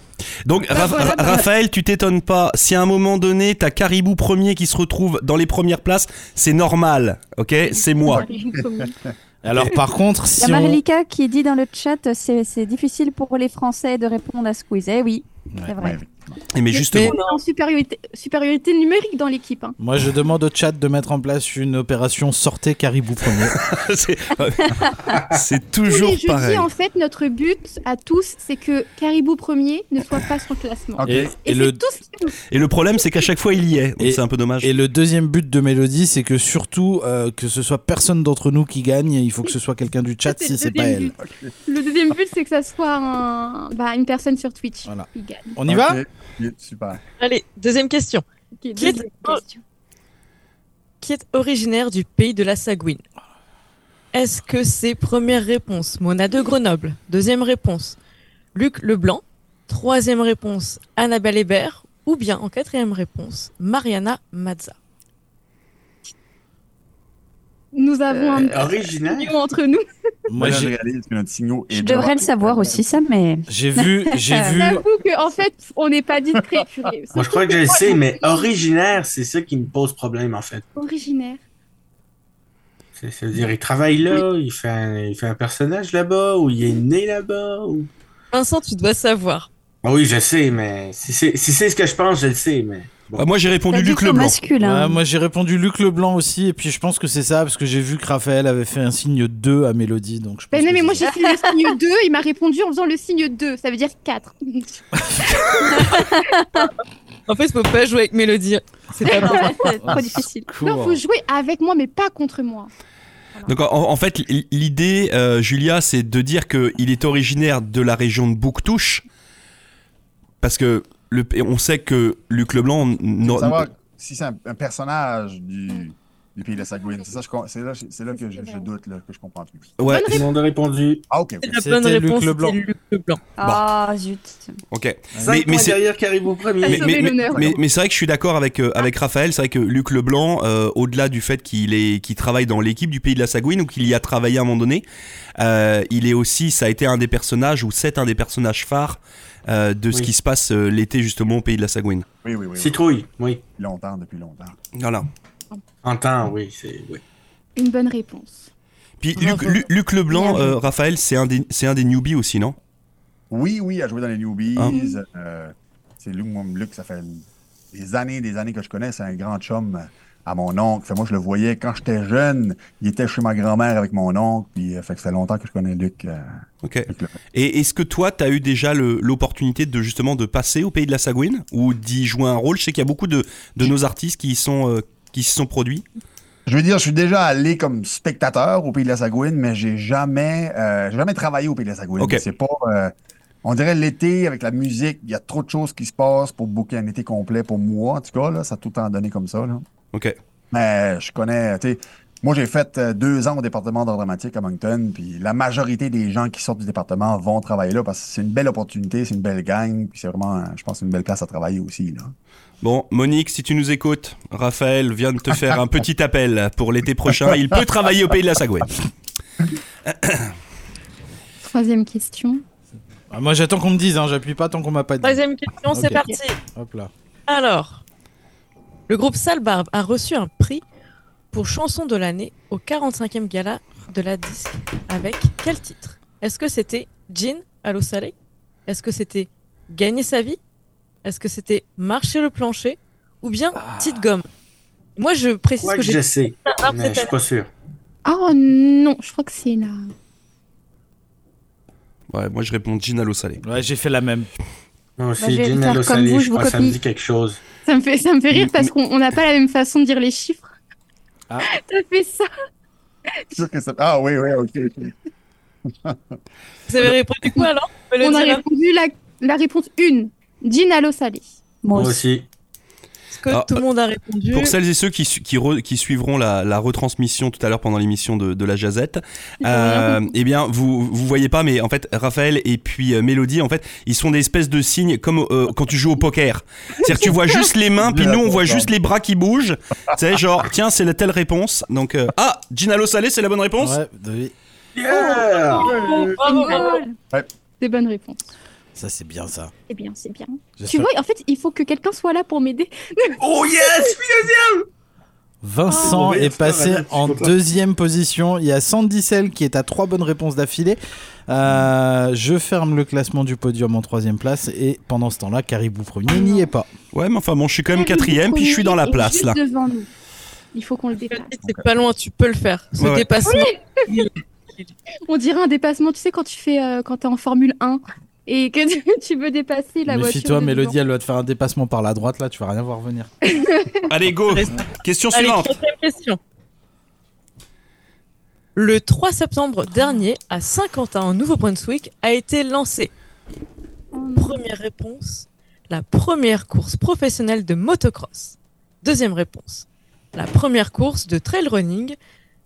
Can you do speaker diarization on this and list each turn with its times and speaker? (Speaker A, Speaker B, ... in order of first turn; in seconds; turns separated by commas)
Speaker A: 0.4-8.2, Speaker B: 0.7-1.5, Speaker B: 7.8-8.9, Speaker C: 8.1-9.1, Speaker D: 9.4-10.8, Speaker E: 10.4-16.0, Speaker C: 15.8-16.4, Speaker A: 16.5-17.2, Speaker B: 16.7-19.8, Speaker F: 16.9-17.4, Speaker D: 19.8-23.6, Speaker A: 23.4-26.7, Speaker G: 25.1-25.4, Speaker B: 25.9-32.3, Speaker C: 31.0-31.3, Speaker D: 31.0-31.8, Speaker A: 32.5-34.7, Speaker D: 34.0-41.1, Speaker B: 40.2-45.6, Speaker C: 41.2-41.5, Speaker D: 44.8-46.0, Speaker C: 45.7-47.0, Speaker F: 47.2-48.2, Speaker B: 48.6-49.6, Speaker F: 48.8-49.4, Speaker F: 51.0-53.0, Speaker F: 54.1-58.0, Speaker F: 58.5-64.8, Speaker B: 67.7-69.9, Speaker G: 68.5-69.3, Speaker D: 70.3-70.7, Speaker C: 70.4-72.9, Speaker E: 71.7-74.7, Speaker D: 73.5-74.8, Speaker B: 74.6-78.6, Speaker G: 77.1-80.6, Speaker B: 80.8-81.4, Speaker G: 83.0-87.9, Speaker F: 88.3-89.5, Speaker G: 89.8-93.3, Speaker A: 93.2-94.4, Speaker E: 93.7-95.0, Speaker D: 94.6-101.1, Speaker B: 100.5-104.8, Speaker E: 101.0-101.7, Speaker D: 105.0-105.5, Speaker E: 105.7-106.7, Speaker F: 107.3-109.7, Speaker E: 109.0-110.5, Speaker D: 109.8-111.0, Speaker B: 110.6-112.7, Speaker A: 113.5-119.0, Speaker A: 120.4-123.7, Speaker C: 123.2-129.8, Speaker B: 128.2-128.7, Speaker A: 129.8-130.2, Speaker B: 129.8-130.3, Speaker G: 130.1-131.0, Speaker C: 131.1-131.5, Speaker F: 131.4-133.2, Speaker D: 131.5-132.6, Speaker E: 133.4-134.6, Speaker A: 134.7-135.8, Speaker D: 135.2-135.4, Speaker G: 135.2-137.1, Speaker B: 136.6-137.6, Speaker A: 136.6-144.8, Speaker A: 145.4-152.1, Speaker C: 152.2-152.8, Speaker G: 152.6-153.4, Speaker C: 153.6-154.6, Speaker A: 154.8-155.1, Speaker G: 155.8-157.0, Speaker B: 157.6-158.5, Speaker A: 159.0-162.6, Speaker F: 159.2-159.6, Speaker B: 160.1-160.6, Speaker C: 163.3-176.2, Speaker B: 164.7-165.0, Speaker A: 176.6-185.8, Speaker C: 176.9-177.1, Speaker C: 186.5-199.6, Speaker C: 200.5-212.1, Speaker A: 212.6-218.7, Speaker A: 219.9-220.3, Speaker B: 221.4-222.4, Speaker D: 223.1-226.9, Speaker F: 225.0-226.4, Speaker F: 227.3-227.8, Speaker F: 228.9-230.6, Speaker F: 231.3-238.1, Speaker F: 238.7-240.4, Speaker F: 241.0-244.3, Speaker D: 243.6-244.0, Speaker F: 245.0-247.1, Speaker G: 245.6-247.5, Speaker B: 248.0-249.9, Speaker A: 252.1-253.4, Speaker D: 253.4-254.3, Speaker G: 255.0-257.4, Speaker E: 255.2-256.8, Speaker B: 257.6-260.5, Speaker A: 258.3-258.7, Speaker B: 261.4-262.3, Speaker C: 263.3-264.9, Speaker C: 265.6-266.1, Speaker F: 266.7-268.4, Speaker B: 268.0-271.3, Speaker E: 271.6-272.0, Speaker G: 271.7-272.3, Speaker F: 273.1-274.6, Speaker A: 273.3-273.6, Speaker A: 274.3-293.8, Speaker B: 279.4-280.1, Speaker B: 286.9-287.3, Speaker C: 287.8-288.7, Speaker D: 293.6-294.3, Speaker G: 294.7-295.9, Speaker F: 294.9-296.8, Speaker C: 295.7-296.1, Speaker B: 296.2-296.9, Speaker E: 296.4-296.8, Speaker B: 297.6-298.2, Speaker D: 298.7-299.5, Speaker B: 299.7-303.9, Speaker D: 300.6-300.9, Speaker G: 303.2-304.7, Speaker D: 305.4-316.7, Speaker B: 305.7-306.1, Speaker G: 305.7-307.3, Speaker B: 316.1-316.5, Speaker A: 316.9-319.4, Speaker B: 317.7-319.9, Speaker B: 320.5-321.3, Speaker F: 321.1-324.7, Speaker A: 322.8-323.1, Speaker B: 323.2-323.8, Speaker B: 325.1-330.8, Speaker D: 329.9-333.1, Speaker B: 333.2-333.9, Speaker A: 333.9-335.5, Speaker F: 334.3-336.2, Speaker F: 338.5-342.9, Speaker B: 343.9-344.4, Speaker F: 344.1-351.9